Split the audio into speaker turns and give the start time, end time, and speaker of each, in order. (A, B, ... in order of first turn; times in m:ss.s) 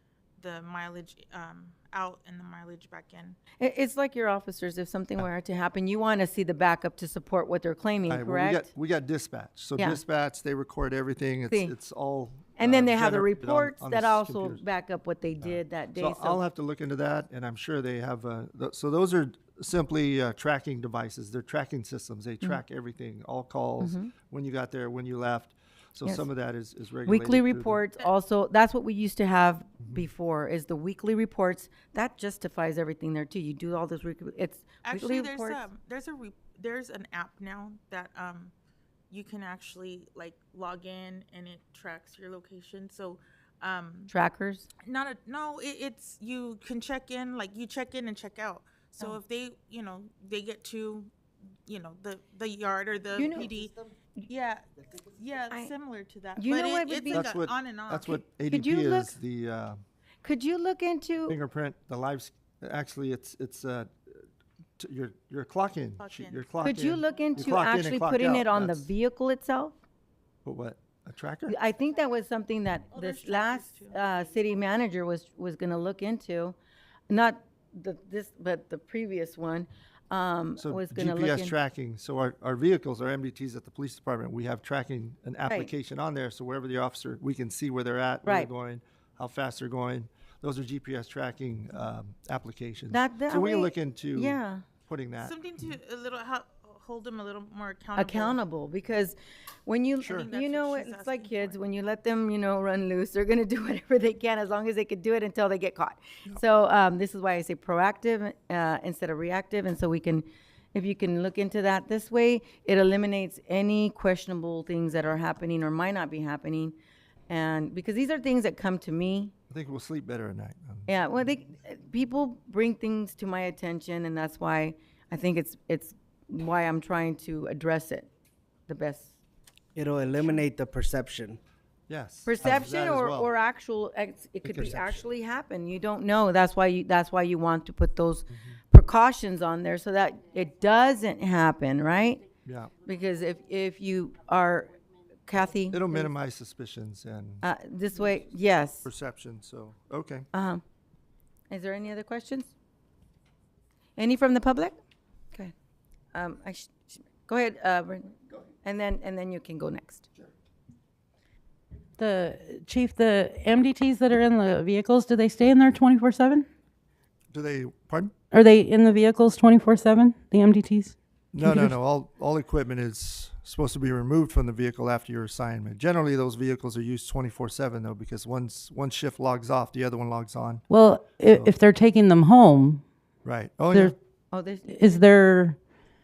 0:00.4-0:03.4 A
0:03.6-0:08.7 B
0:08.1-0:14.6 C
0:12.6-0:16.4 B
0:15.4-0:27.8 C
0:23.8-0:24.1 B
0:27.0-0:35.6 B
0:34.8-0:38.5 A
0:39.1-0:44.1 A
0:44.1-0:44.7 B
0:44.8-0:51.1 A
0:51.7-0:53.7 A
0:53.2-0:53.5 B
0:54.3-0:58.2 A
0:56.4-0:57.3 B
0:57.1-0:59.8 C
0:58.5-0:59.2 B
1:00.2-1:01.4 B
1:01.3-1:04.2 C
1:04.8-1:08.9 C
1:06.0-1:06.7 A
1:06.6-1:09.8 B
1:10.4-1:11.6 C
1:11.5-1:16.6 B
1:12.9-1:14.0 A
1:17.1-1:21.6 B
1:20.6-1:35.4 C
1:28.3-1:28.5 B
1:32.9-1:34.6 B
1:35.2-1:38.4 A
1:38.0-1:56.8 B
1:40.0-1:41.6 A
1:40.0-1:40.3 C
1:57.3-1:59.3 B
1:59.5-2:01.0 C
2:00.9-2:08.1 B
2:08.7-2:09.1 B
2:09.8-2:11.4 D
2:11.9-2:13.3 C
2:12.2-2:22.2 B
2:14.4-2:15.0 D
2:22.4-2:22.7 C
2:22.8-2:26.1 B
2:25.7-2:27.4 C
2:27.4-2:28.9 B
2:28.8-2:30.3 C
2:30.3-2:30.6 B
2:31.5-2:32.5 B
2:34.0-2:34.8 B
2:36.1-2:40.1 B
2:42.0-2:46.5 E
2:47.3-2:48.1 C
2:48.3-2:51.7 E
2:51.3-3:00.6 C
3:00.7-3:02.8 E
3:01.3-3:01.6 C
3:03.2-3:04.0 C
3:04.3-3:04.9 B
3:04.7-3:05.6 E